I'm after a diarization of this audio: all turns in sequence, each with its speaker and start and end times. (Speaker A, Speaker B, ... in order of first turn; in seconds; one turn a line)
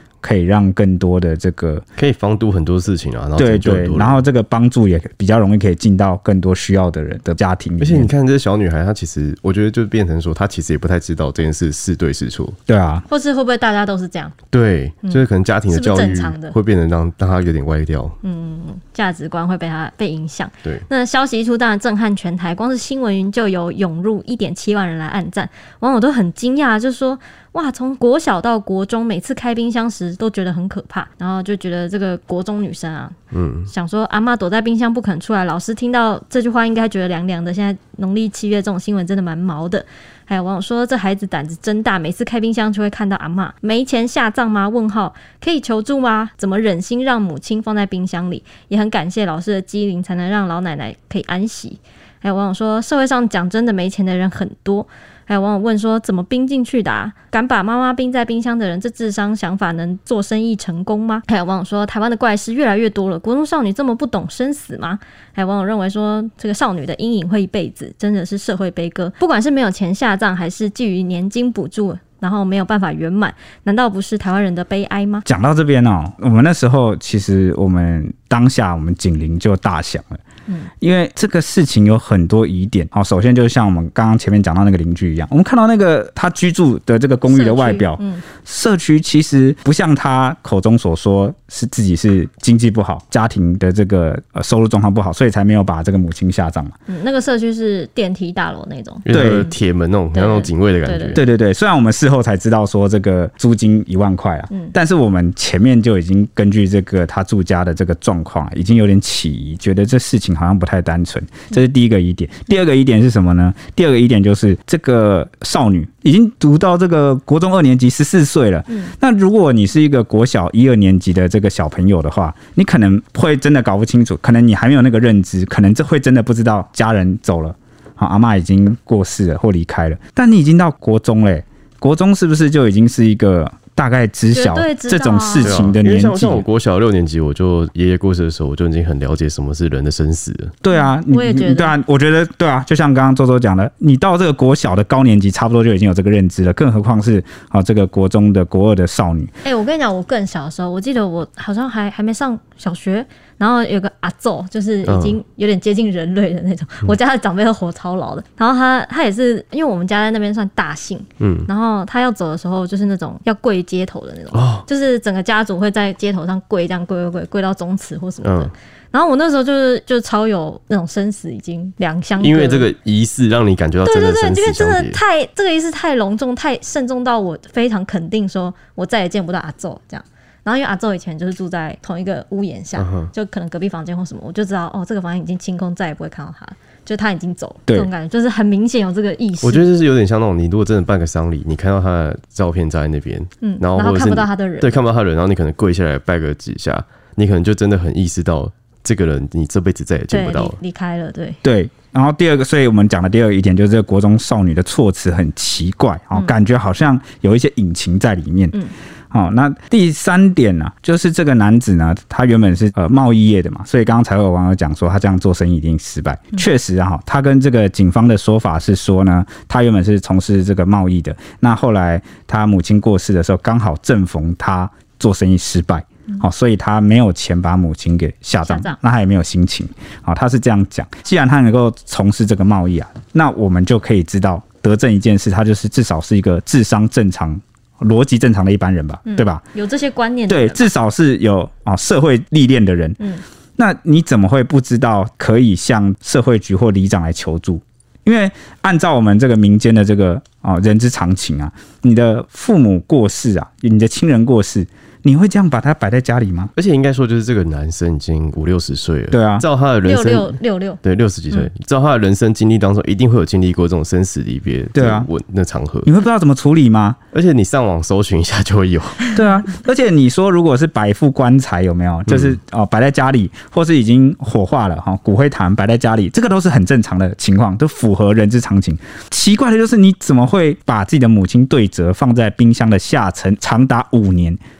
Speaker A: 0.2-1.8
Speaker B: 2.0-4.2
Speaker A: 3.4-8.1
Speaker B: 7.8-12.6
Speaker A: 12.7-13.0
Speaker C: 13.1-14.3
Speaker B: 14.5-18.2
Speaker C: 15.0-16.5
Speaker C: 18.2-33.1
Speaker B: 33.3-33.7
Speaker C: 33.7-75.2
Speaker A: 75.2-80.2
Speaker A: 80.8-96.7
Speaker C: 87.3-88.2
Speaker C: 96.9-99.5
Speaker B: 99.0-101.2
Speaker A: 99.1-99.5
Speaker C: 100.1-101.2
Speaker A: 101.1-136.4
Speaker C: 134.3-135.6
Speaker B: 135.4-140.6
Speaker A: 140.6-149.3
Speaker C: 140.7-141.7
Speaker C: 149.4-172.7
Speaker B: 154.8-155.2
Speaker B: 161.2-161.5
Speaker B: 164.3-164.6
Speaker B: 168.2-168.5
Speaker B: 172.2-175.0
Speaker C: 173.8-189.7
Speaker B: 182.8-183.1
Speaker B: 189.4-200.6
Speaker C: 193.4-194.8
Speaker C: 200.1-201.4
Speaker A: 201.4-208.6
Speaker A: 209.1-239.4
Speaker C: 228.4-228.8
Speaker C: 239.1-240.7
Speaker A: 240.3-243.0
Speaker A: 243.6-256.5
Speaker B: 256.6-265.9
Speaker A: 259.1-259.4
Speaker C: 259.8-260.8
Speaker A: 264.7-265.1
Speaker A: 265.8-267.0
Speaker B: 267.1-269.1
Speaker A: 269.1-284.4
Speaker B: 272.1-272.4